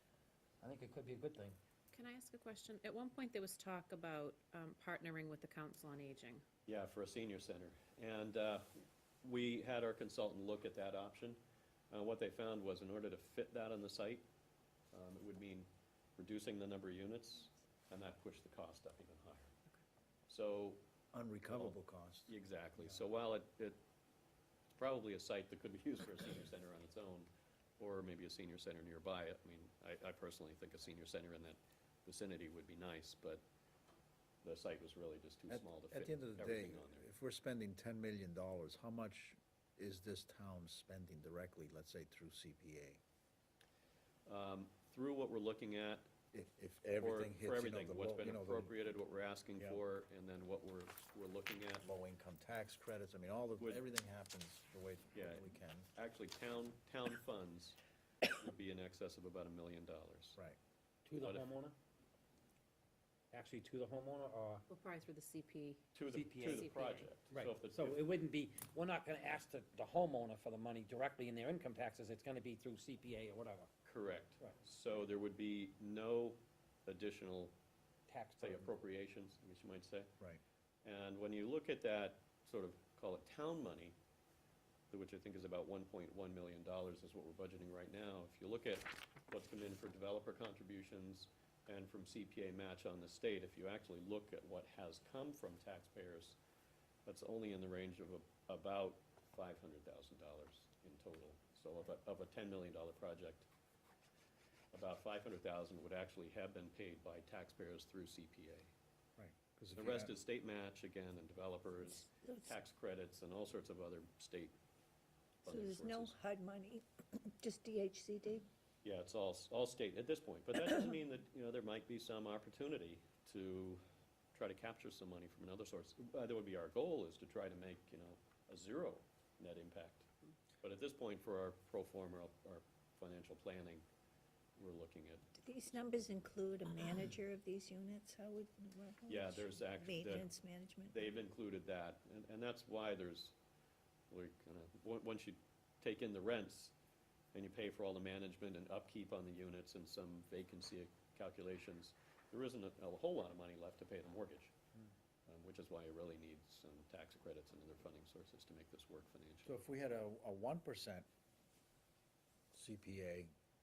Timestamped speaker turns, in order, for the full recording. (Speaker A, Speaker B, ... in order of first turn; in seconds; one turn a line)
Speaker A: 0.6-1.6
Speaker B: 1.9-6.4
Speaker C: 6.7-8.7
Speaker C: 9.2-14.2
Speaker C: 14.9-19.5
Speaker C: 20.3-20.8
Speaker D: 21.1-22.3
Speaker C: 22.3-23.8
Speaker C: 24.7-33.4
Speaker C: 34.4-37.0
Speaker D: 35.5-43.0
Speaker C: 44.2-46.1
Speaker D: 46.3-48.7
Speaker C: 47.0-51.9
Speaker D: 51.8-55.9
Speaker C: 55.1-60.4
Speaker A: 61.0-61.8
Speaker C: 61.2-61.5
Speaker A: 63.3-64.6
Speaker B: 64.7-65.8
Speaker C: 65.9-68.0
Speaker A: 66.1-66.6
Speaker B: 66.4-67.1
Speaker A: 67.3-73.7
Speaker C: 73.8-77.5
Speaker A: 78.1-78.7
Speaker C: 78.4-80.1
Speaker C: 80.8-84.0
Speaker C: 84.9-96.4
Speaker C: 97.0-103.5
Speaker C: 104.7-108.7
Speaker D: 109.2-110.1
Speaker C: 109.7-114.5
Speaker E: 111.8-112.5
Speaker C: 115.4-116.2
Speaker E: 115.4-118.5
Speaker C: 118.8-123.8
Speaker C: 124.3-130.1
Speaker C: 130.6-133.8
Speaker C: 134.6-135.8
Speaker E: 135.4-141.0
Speaker C: 139.1-140.3
Speaker C: 140.9-143.3
Speaker C: 144.1-146.7
Speaker C: 147.3-154.5
Speaker C: 155.3-159.5
Speaker D: 159.4-161.1
Speaker D: 162.5-163.3